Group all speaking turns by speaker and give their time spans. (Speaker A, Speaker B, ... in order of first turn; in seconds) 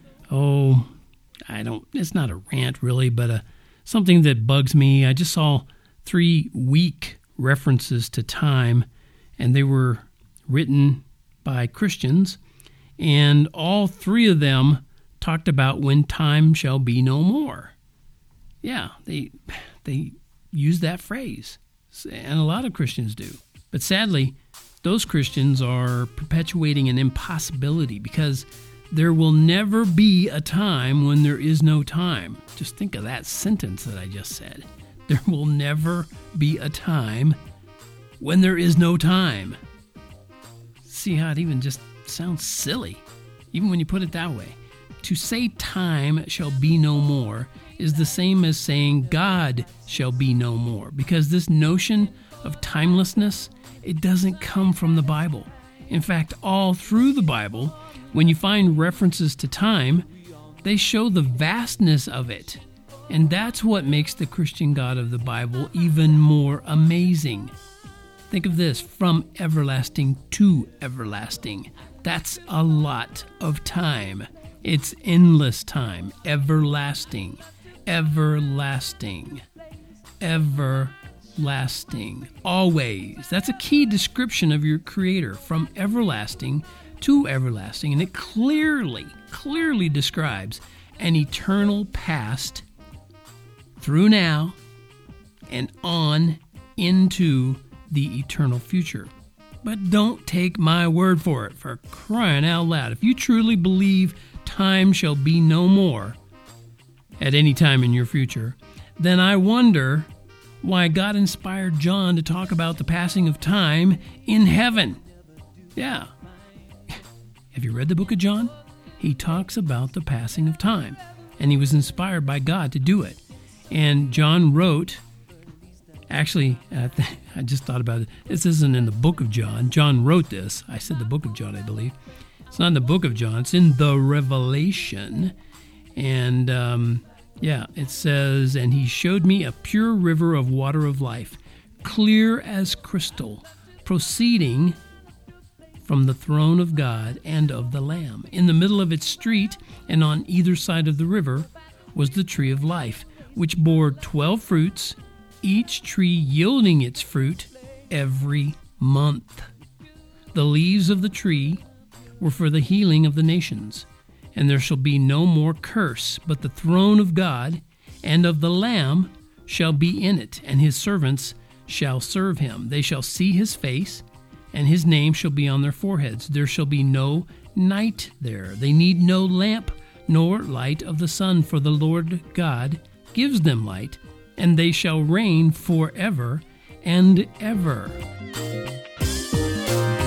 Speaker A: 0.3-0.9, 1.5-8.9, 9.4-12.4, 13.0-17.8, 18.6-37.4, 38.2-39.6, 40.8-60.1, 60.6-67.5, 68.3-79.4, 80.2-92.7, 93.8-94.6, 95.5-99.1, 99.6-106.2, 107.2-110.1, 110.6-115.0, 115.8-116.1, 117.5-125.0, 126.1-132.0, 132.5-135.3, 135.9-144.8, 145.8-159.5, 160.3-161.6, 162.2-188.0